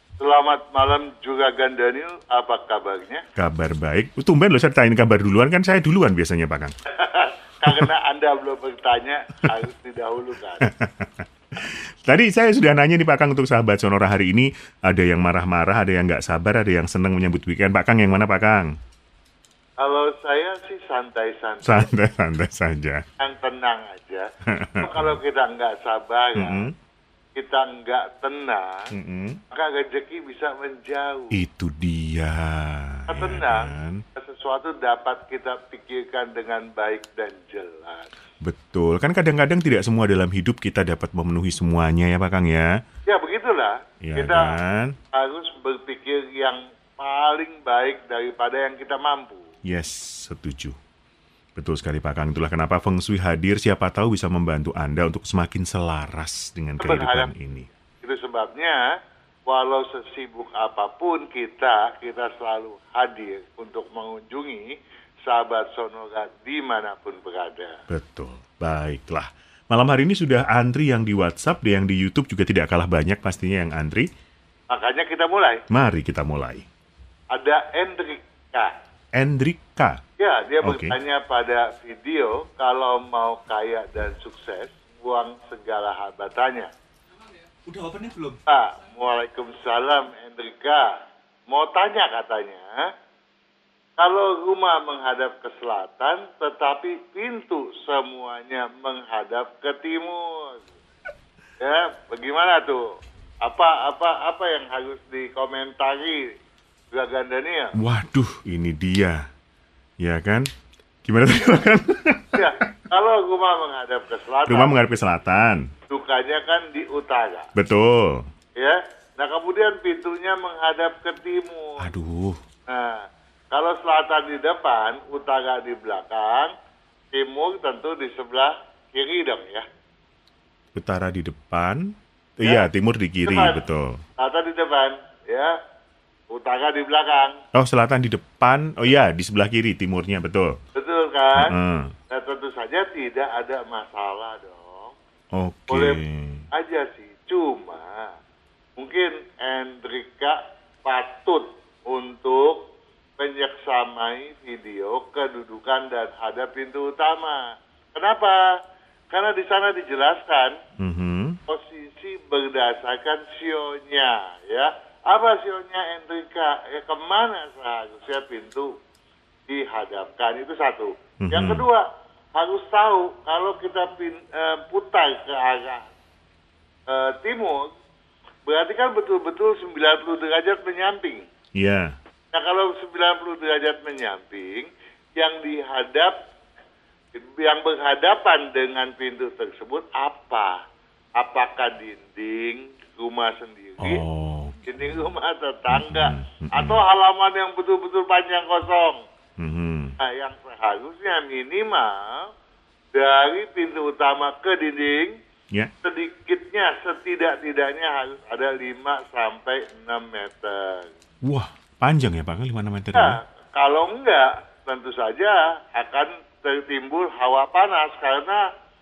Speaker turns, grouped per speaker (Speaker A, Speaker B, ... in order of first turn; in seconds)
Speaker A: 0.2-3.2, 7.0-10.7, 19.8-21.9, 23.2-24.2, 24.8-26.7, 27.4-28.8, 29.5-31.4, 33.1-38.1, 43.1-44.6, 45.1-49.5, 56.8-57.3, 58.0-58.9, 59.5-64.7, 65.3-67.8, 74.7-75.6, 77.3-78.7, 80.2-86.7, 88.5-90.9, 91.5-92.9, 94.0-100.6, 101.6-102.8, 103.4-106.2, 106.9-107.8, 112.4-114.7, 115.9-117.5, 118.6-121.9, 122.7-126.5, 127.1-129.7, 133.3-133.6, 134.2-135.5, 136.3-137.4, 140.8-141.6, 142.1-144.9, 145.7-146.0, 146.5-148.1, 148.8-152.6, 153.2-158.4, 159.1-160.5, 161.5-168.7, 169.5-171.8, 172.4-175.8, 176.9-177.7, 178.5-181.2, 182.3-184.7, 185.2-186.1, 187.2-190.6, 191.2-194.0, 194.7-199.0, 200.0-202.3, 202.9-205.1, 205.8-210.9, 212.9-218.4
Speaker B: 3.4-6.7, 10.6-18.7, 21.6-23.0, 24.5-25.2, 26.4-26.7, 28.9-29.4, 31.3-34.0, 38.4-42.7, 44.0-45.0, 49.7-50.8, 51.6-57.7, 67.9-74.1, 75.7-76.7, 79.2-80.0, 80.6-81.0, 87.7-88.4, 107.8-109.3, 110.0-110.5, 111.0-112.4, 114.5-115.7, 117.5-118.3, 121.8-122.4, 130.8-134.0, 137.5-140.6, 141.4-141.9, 145.3-146.4, 160.8-161.4, 171.2-171.7, 181.6-181.9, 193.8-194.7, 195.7-196.8, 199.4-199.9, 211.2-213.2